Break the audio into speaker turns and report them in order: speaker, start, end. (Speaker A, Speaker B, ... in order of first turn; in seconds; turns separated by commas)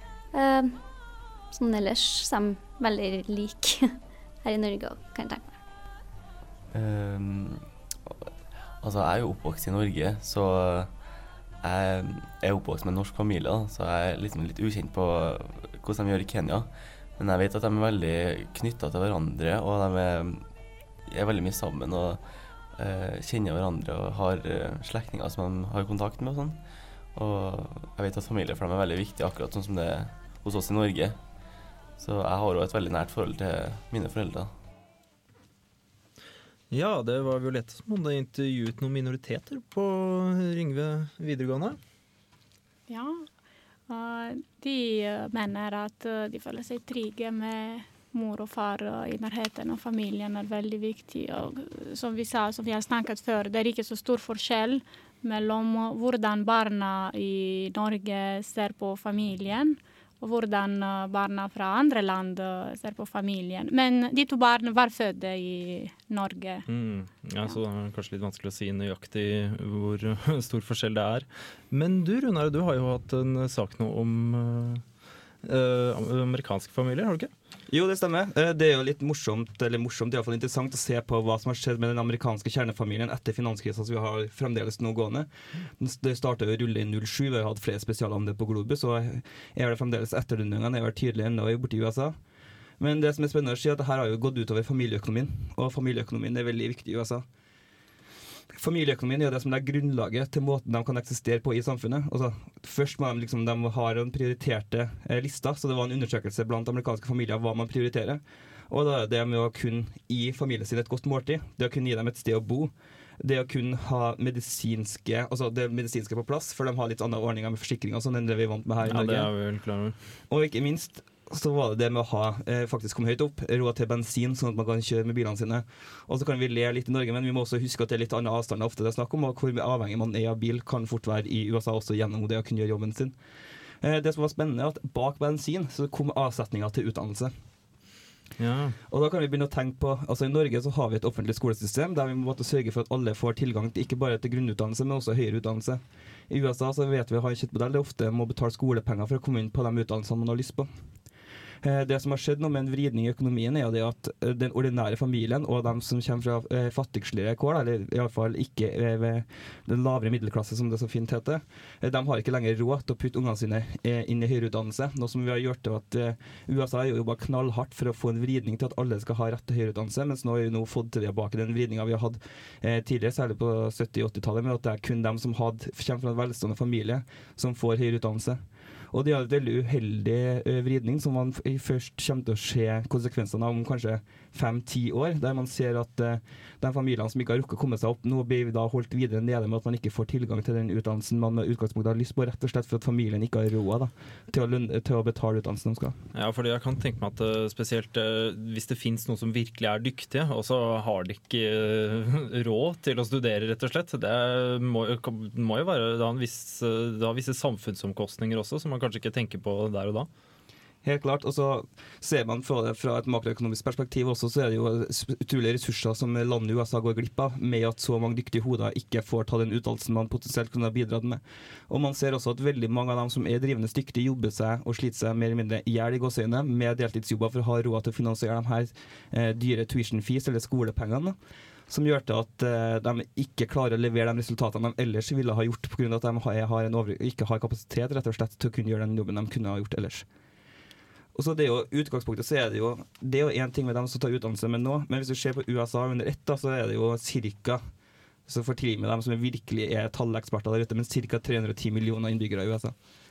Speaker A: 0.3-5.6, Speaker B: 6.7-31.4, Speaker B: 32.0-34.5, Speaker C: 36.7-41.8, Speaker D: 42.9-43.3, Speaker D: 43.9-66.7, Speaker C: 66.7-74.8, Speaker C: 75.4-77.3, Speaker E: 77.7-97.3, Speaker E: 98.5-119.4, Speaker C: 118.8-120.0, Speaker E: 120.3-133.2, Speaker E: 133.8-137.5, Speaker C: 138.4-138.8, Speaker E: 138.9-151.1, Speaker E: 151.6-195.9, Speaker C: 196.1-210.1, Speaker E: 210.8-231.2, Speaker E: 231.7-240.1, Speaker E: 241.1-247.6, Speaker E: 248.2-252.9